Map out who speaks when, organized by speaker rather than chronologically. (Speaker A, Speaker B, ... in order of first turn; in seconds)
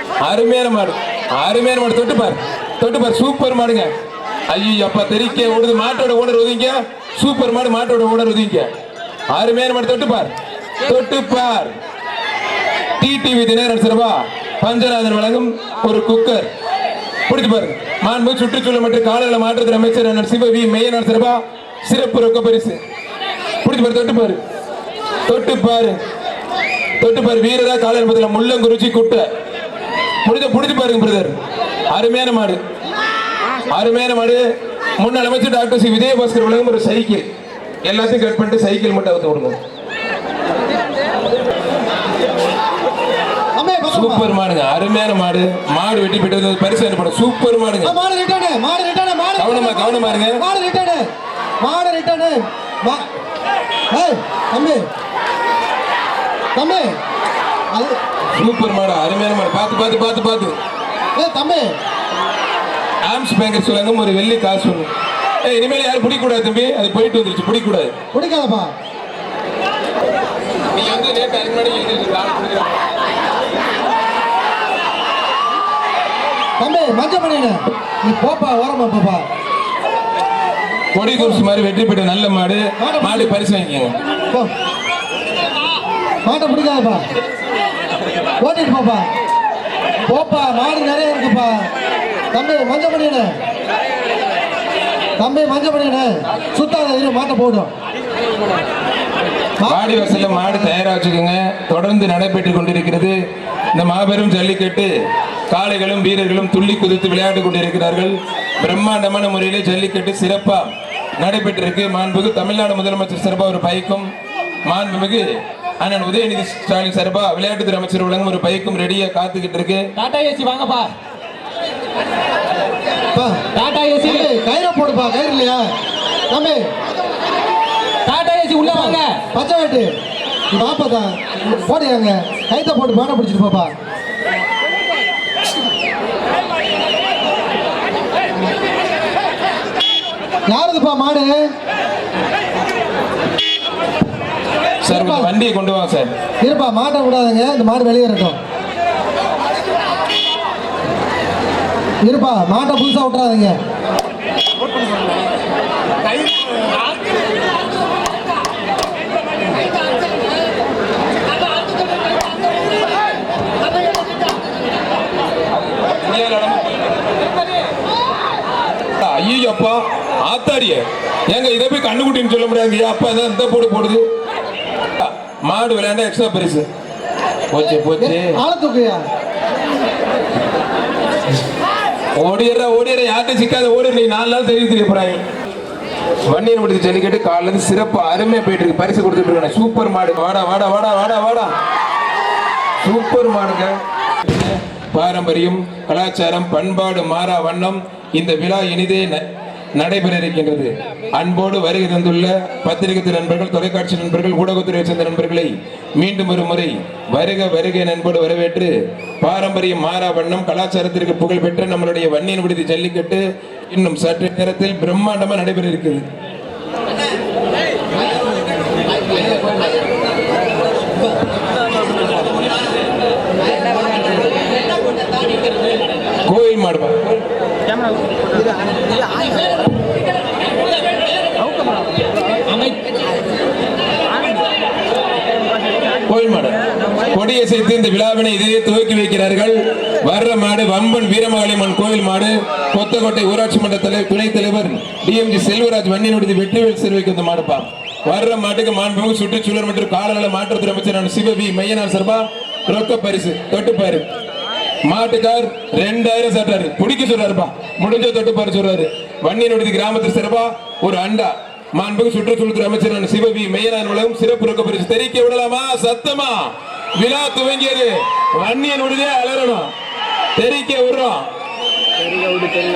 Speaker A: 0.2-3.9, 4.5-8.7, 9.3-10.3, 10.8-11.7, 13.0-16.5, 17.3-22.8, 23.6-24.4, 25.3-26.0, 27.0-29.3, 30.2-31.4, 31.9-32.6, 33.7-34.5, 35.0-37.2, 37.9-39.6, 43.9-48.0, 49.4-50.4, 58.4-60.6, 63.0-64.9, 65.4-67.9, 70.7-72.8, 80.9-83.9, 99.7-103.2, 103.8-104.9, 105.5-114.1, 114.7-119.9, 144.8-146.1, 165.9-166.6, 169.0-174.1, 175.0-176.7, 177.5-178.4, 182.2-185.2, 186.3-191.5, 192.8-199.2, 199.8-216.0, 226.3-227.0, 236.1-236.6, 237.1-254.1, 254.9-269.7, 270.4-271.3
Speaker B: 43.6-44.3, 47.8-51.1, 51.6-53.1, 53.9-54.9, 56.5-57.0, 57.7-58.0, 61.2-61.7, 68.1-68.7, 76.6-79.2, 81.1-81.4, 82.8-83.4, 86.2-87.0, 88.4-89.1, 90.0-91.7, 92.3-93.3, 95.2-97.7, 99.6-100.7, 123.1-123.5, 124.0-125.7, 126.3-126.7, 128.6-129.9, 130.5-133.7, 140.5-141.5, 144.9-145.3, 146.4-148.4, 152.0-153.6, 178.0-179.0
Speaker C: 120.0-120.9, 123.5-124.3, 128.1-129.2